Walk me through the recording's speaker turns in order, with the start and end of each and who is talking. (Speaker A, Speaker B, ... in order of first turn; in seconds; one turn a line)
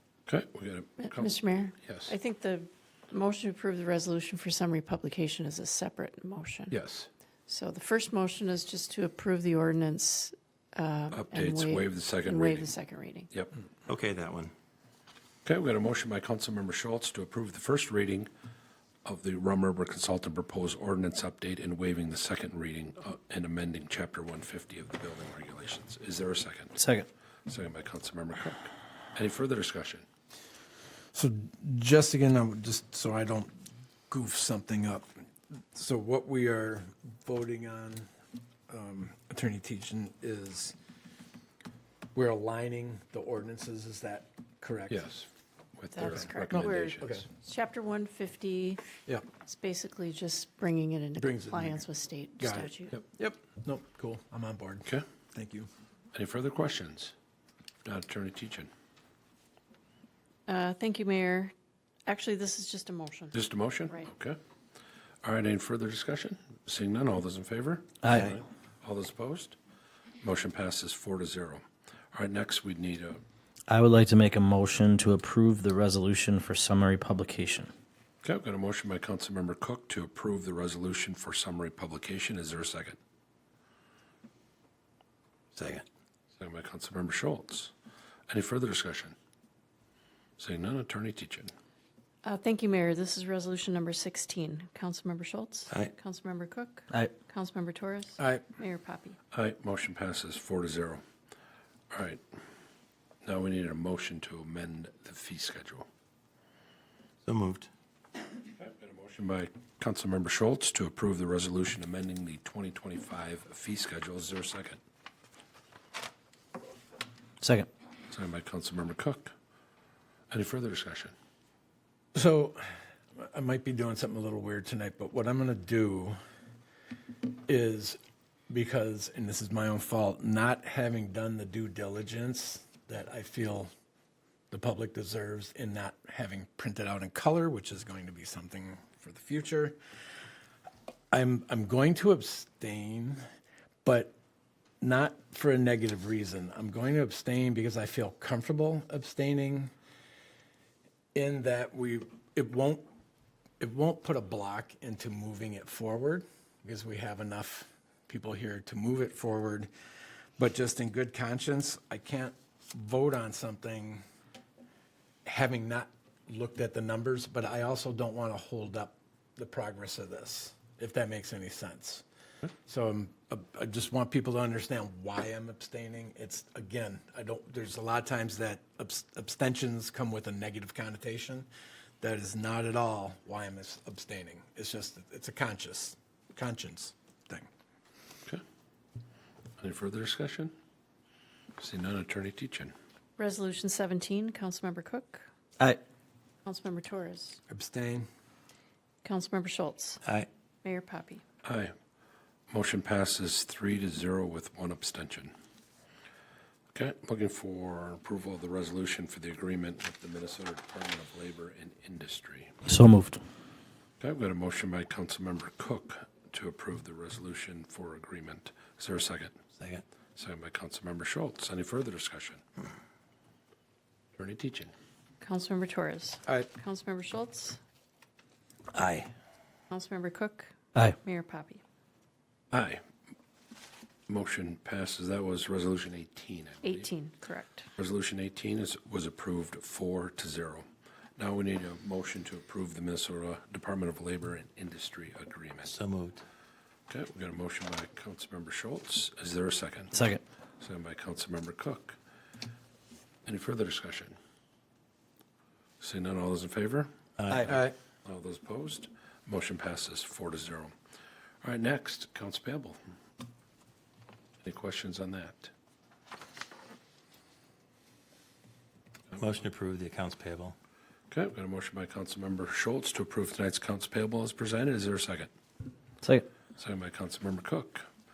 Speaker A: 0.3-2.1
Speaker B: 1.0-6.8
Speaker A: 6.7-7.1
Speaker B: 7.5-13.3
Speaker A: 11.1-12.7
Speaker C: 13.9-14.5
Speaker A: 15.4-18.3
Speaker A: 19.1-26.7
Speaker D: 26.8-27.1
Speaker A: 27.5-30.1
Speaker E: 31.1-33.5
Speaker E: 34.1-35.1
Speaker E: 35.7-38.1
Speaker E: 38.7-40.8
Speaker E: 42.1-45.1
Speaker A: 44.9-47.2
Speaker B: 45.9-48.9
Speaker E: 46.5-47.3
Speaker B: 49.5-53.0
Speaker E: 51.2-51.9
Speaker E: 52.4-55.7
Speaker A: 56.1-57.1
Speaker A: 57.9-58.7
Speaker B: 60.5-61.5
Speaker B: 62.1-64.1
Speaker A: 63.3-64.4
Speaker A: 65.2-69.6
Speaker D: 68.0-68.3
Speaker A: 70.2-73.2
Speaker D: 73.7-77.7
Speaker A: 78.2-83.0
Speaker C: 85.5-85.8
Speaker A: 86.4-87.7
Speaker A: 88.3-89.2
Speaker A: 90.4-91.5
Speaker B: 92.2-99.2
Speaker E: 98.2-98.5
Speaker A: 99.3-101.0
Speaker A: 101.9-102.2
Speaker A: 103.2-105.9
Speaker C: 107.2-107.7
Speaker A: 108.6-114.8
Speaker D: 117.4-117.7
Speaker A: 118.1-119.3
Speaker A: 120.3-121.1
Speaker E: 122.1-122.6
Speaker E: 123.2-126.2
Speaker E: 127.5-128.0
Speaker E: 128.5-133.7
Speaker E: 134.5-139.8
Speaker E: 141.1-143.2
Speaker E: 143.8-144.2
Speaker E: 144.8-149.7
Speaker E: 151.2-152.9
Speaker E: 153.6-159.7
Speaker E: 160.4-164.0
Speaker E: 165.2-172.0
Speaker E: 172.7-181.5
Speaker E: 182.0-187.5
Speaker A: 189.6-190.5
Speaker A: 191.6-192.7
Speaker B: 193.2-195.3
Speaker B: 196.4-197.4
Speaker E: 197.5-198.1
Speaker B: 199.0-200.0
Speaker B: 200.6-201.2
Speaker A: 201.4-201.7
Speaker A: 202.5-205.3
Speaker A: 206.7-212.6
Speaker D: 212.7-213.2
Speaker A: 214.0-219.3
Speaker C: 219.6-219.8
Speaker A: 220.2-222.4
Speaker A: 224.2-224.7
Speaker B: 225.2-227.6
Speaker C: 228.7-229.1
Speaker B: 229.7-231.6
Speaker A: 232.5-232.8
Speaker A: 234.1-236.9
Speaker B: 236.6-237.7
Speaker A: 237.8-240.7
Speaker A: 241.2-245.7
Speaker C: 245.7-246.2
Speaker A: 246.9-250.0
Speaker D: 249.9-250.2
Speaker A: 250.6-252.0
Speaker A: 253.2-254.2
Speaker A: 255.8-256.9
Speaker C: 257.2-257.6
Speaker E: 257.5-257.7
Speaker A: 258.1-260.7
Speaker A: 261.4-262.8
Speaker A: 264.4-265.5
Speaker C: 269.1-270.6
Speaker A: 271.1-275.3
Speaker A: 276.6-277.9